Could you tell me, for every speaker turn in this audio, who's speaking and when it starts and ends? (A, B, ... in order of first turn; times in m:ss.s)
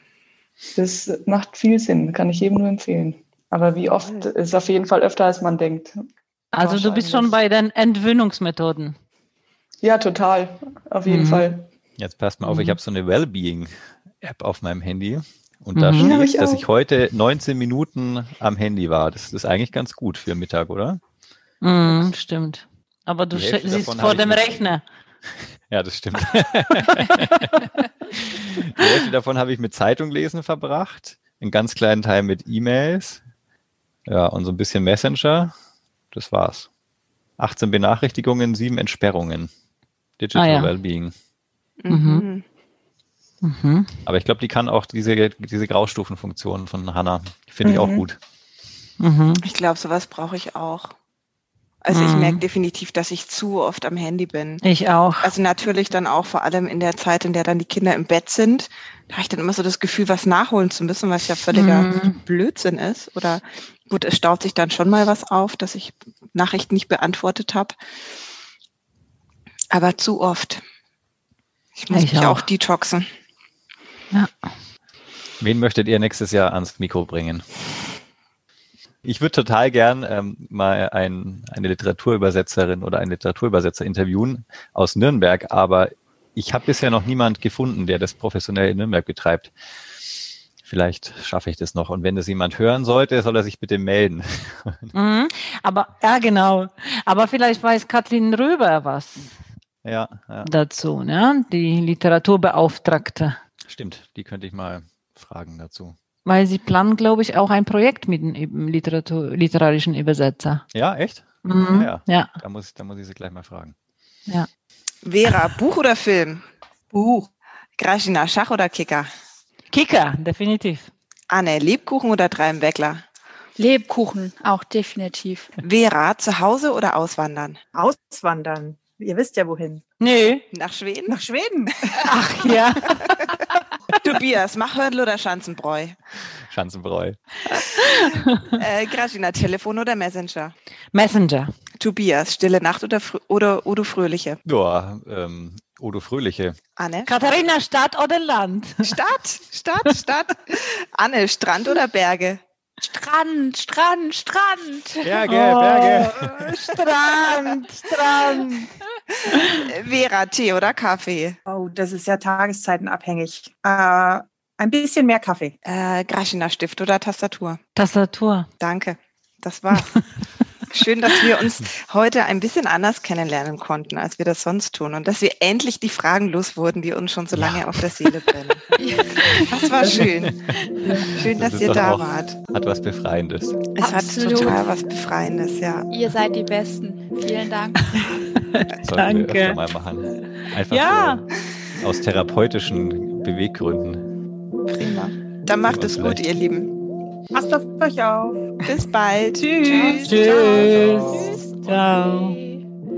0:00.8-0:05.9 A
0:03.9-0:04.3 B
0:06.5-0:09.0 C
0:06.6-0:07.4 A
0:09.8-0:11.7 A
0:11.1-0:11.5 C
0:12.0-0:21.0 D
0:12.4-0:12.8 C
0:15.8-0:16.2 C
0:16.0-0:16.6 A
0:21.6-0:24.8 C
0:23.3-0:24.6 D
0:25.3-0:33.2 D
0:34.0-0:35.5 D
0:36.1-0:36.7 D
0:37.4-0:39.5 D
0:40.2-0:41.1 D
0:40.3-0:40.7 C
0:41.8-0:42.4 B
0:41.9-0:42.2 C
0:43.4-0:43.9 C
0:44.0-0:48.2 D
0:47.7-0:48.0 B
0:49.0-0:49.4 C
0:49.4-0:50.9 B
0:51.8-0:54.6 B
0:51.9-0:52.4 C
0:54.6-0:55.3 C
0:55.2-1:07.8 B
1:01.5-1:02.2 C
1:09.7-1:10.6 B
1:11.8-1:13.0 B
1:11.9-1:12.4 C
1:14.1-1:14.5 C
1:15.4-1:17.4 D
1:19.0-1:29.5 D
1:30.6-1:34.9 D
1:34.9-1:39.3 C
1:39.8-1:40.5 D
1:40.4-1:43.4 C
1:43.6-1:46.0 D
1:46.2-1:50.6 C
1:50.7-1:53.7 D
1:51.4-1:52.3 C
1:55.0-1:56.4 B
1:56.9-1:57.3 E
1:57.8-1:59.1 B
1:59.7-2:00.9 C
2:01.3-2:03.0 B
2:03.6-2:05.5 F
2:05.6-2:07.6 B
2:07.7-2:09.8 E
2:10.0-2:10.4 C
2:10.5-2:11.1 B
2:11.1-2:12.0 E
2:12.0-2:12.9 C
2:12.9-2:13.3 B
2:14.0-2:16.0 B
2:16.4-2:17.2 D
2:17.5-2:18.5 C
2:17.8-2:20.5 B
2:20.9-2:21.5 C
2:21.8-2:24.4 B
2:24.4-2:26.6 D
2:26.8-2:27.3 B
2:27.1-2:28.9 C
2:28.8-2:32.4 B
2:32.9-2:35.1 F
2:35.0-2:36.4 D
2:35.2-2:38.7 C
2:39.3-2:39.6 C
2:39.4-2:41.4 B
2:41.5-2:45.6 E
2:45.6-2:47.6 B
2:47.8-2:48.5 C
2:48.6-2:50.0 B
2:50.7-2:58.6 B
2:57.3-2:57.7 D
2:58.8-2:59.4 F
2:59.4-3:00.4 B
3:01.1-3:02.4 B
3:01.2-3:03.6 D
3:03.8-3:05.9 B
3:03.8-3:04.6 F
3:05.9-3:07.8 F
3:07.9-3:09.6 C
3:08.8-3:11.3 D
3:10.7-3:11.2 C
3:11.8-3:14.1 D
3:14.7-3:16.7 B
3:15.6-3:16.2 D
3:17.3-3:18.6 E
3:18.6-3:20.7 B
3:19.4-3:22.4 C
3:20.1-3:22.6 F
3:20.6-3:21.3 D